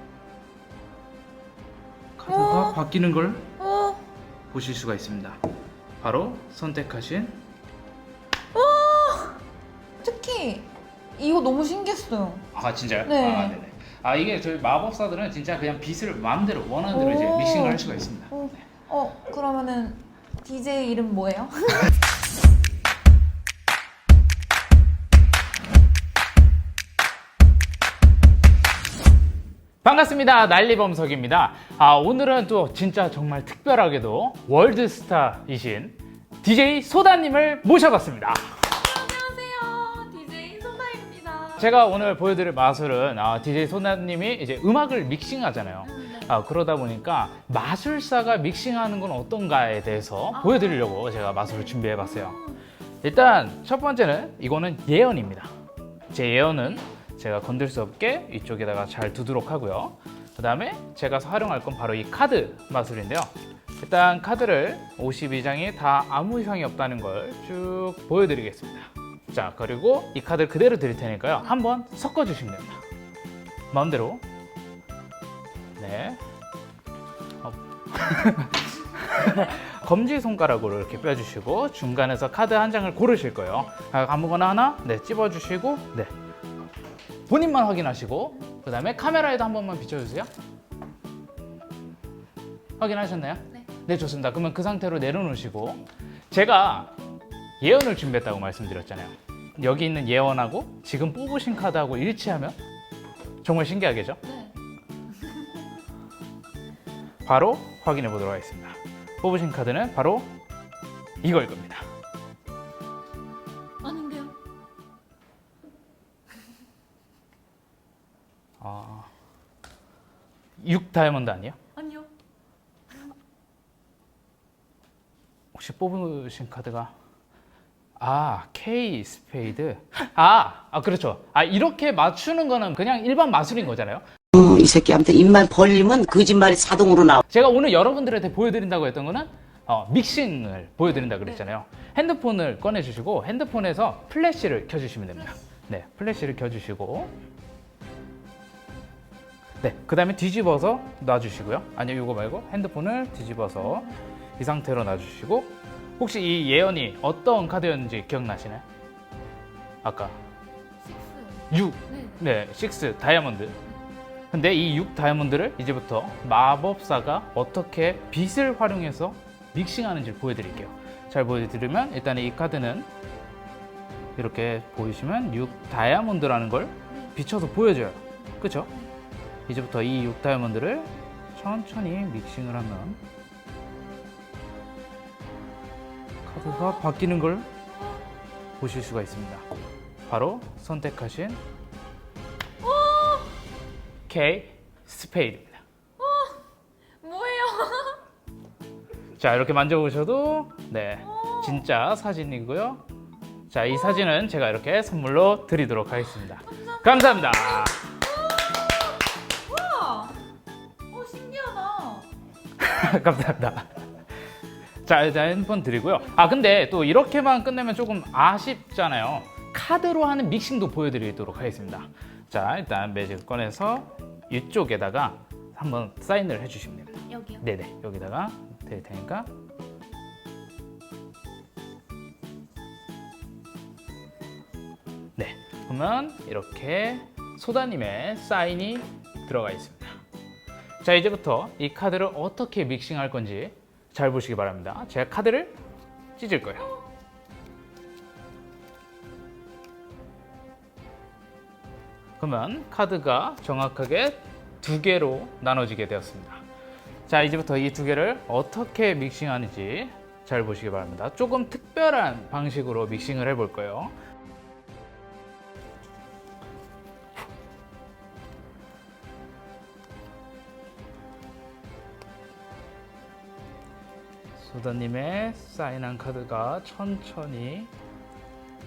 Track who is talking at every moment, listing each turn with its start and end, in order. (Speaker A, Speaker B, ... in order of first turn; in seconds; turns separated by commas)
Speaker A: 2.2-3.5, Speaker B: 2.3-2.8, Speaker B: 3.6-4.0, Speaker A: 4.5-5.4, Speaker A: 6.0-7.4, Speaker B: 8.5-9.4, Speaker B: 10.0-12.5, Speaker A: 12.5-18.5, Speaker B: 13.1-13.6, Speaker B: 16.9-21.9, Speaker A: 29.8-38.5, Speaker B: 38.6-41.7, Speaker A: 41.6-52.4, Speaker B: 45.8-46.4, Speaker B: 50.3-52.6, Speaker A: 53.0-55.5, Speaker A: 56.1-72.8, Speaker A: 73.7-74.2, Speaker A: 75.8-76.2, Speaker A: 77.4-86.1, Speaker A: 87.3-90.3, Speaker A: 92.8-96.9, Speaker A: 97.6-102.6, Speaker A: 103.4-104.2, Speaker B: 104.2-104.5, Speaker B: 105.2-105.6, Speaker A: 107.2-110.3, Speaker A: 111.2-111.8, Speaker B: 113.8-114.3, Speaker A: 118.6-119.1, Speaker A: 120.6-121.6, Speaker B: 121.8-122.1, Speaker A: 125.5-126.9, Speaker A: 128.0-134.1, Speaker C: 134.3-137.2, Speaker A: 137.3-147.1, Speaker B: 141.1-141.4, Speaker A: 149.6-158.6, Speaker B: 153.6-154.0, Speaker A: 159.8-160.2, Speaker B: 160.8-162.2, Speaker A: 161.5-163.6, Speaker A: 164.3-172.9, Speaker A: 174.2-178.7, Speaker B: 178.6-178.9, Speaker A: 179.5-183.0, Speaker A: 186.3-187.5, Speaker B: 186.4-186.8, Speaker B: 187.7-188.0, Speaker A: 188.6-189.4, Speaker A: 190.1-191.4, Speaker B: 192.6-193.4, Speaker A: 194.1-195.6, Speaker B: 196.0-196.5, Speaker B: 197.0-198.0, Speaker A: 199.2-202.8, Speaker B: 201.0-201.7, Speaker A: 203.5-207.8, Speaker B: 206.2-210.2, Speaker B: 210.9-212.1, Speaker A: 212.6-213.8, Speaker A: 214.8-229.3, Speaker B: 227.1-227.4, Speaker A: 235.2-240.0, Speaker A: 240.8-245.5, Speaker A: 246.2-246.7, Speaker A: 252.2-256.4, Speaker A: 257.1-263.9, Speaker A: 274.4-277.7